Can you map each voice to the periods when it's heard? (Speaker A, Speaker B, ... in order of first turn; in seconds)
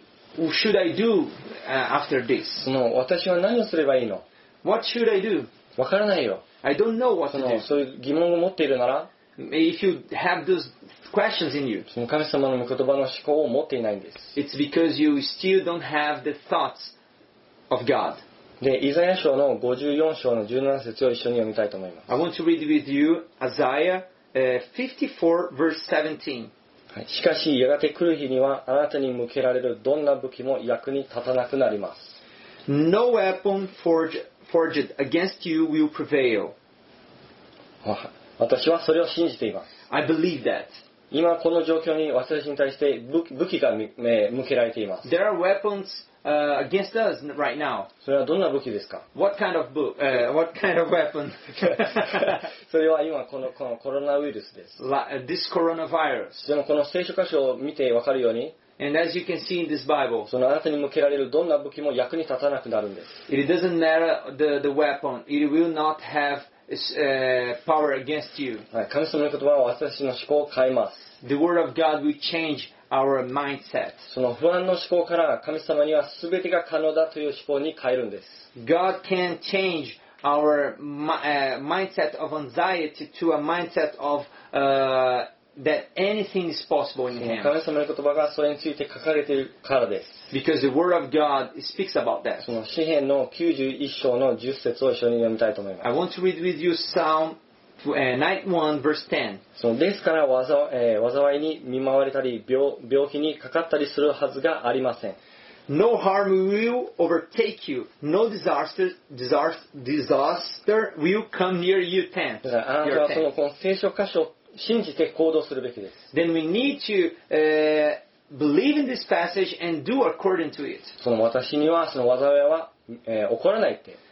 Speaker A: 0.4-2.7, 4.6-5.5, 6.6-7.7, 9.4-11.9, 14.3-16.9, 17.7-18.2, 22.1-26.5, 32.7-36.5, 39.9-40.8, 45.0-47.9, 49.1-52.4, 54.8-56.4, 58.8-60.3, 63.3-68.7, 71.2-74.0, 78.6-87.5, 90.3-92.5, 95.8-99.4, 105.7-113.2, 116.1-121.0
Speaker B: 2.6-4.2, 5.8-6.4, 7.3-9.1, 11.9-14.4, 18.6-22.1, 26.9-32.2, 37.8-39.7, 41.1-45.1, 48.0-49.0, 52.1-54.8, 56.4-58.6, 60.3-63.2, 68.7-71.1, 74.1-78.5, 87.2-90.3, 92.4-95.9, 99.6-105.2, 112.4-116.0, 121.0-124.0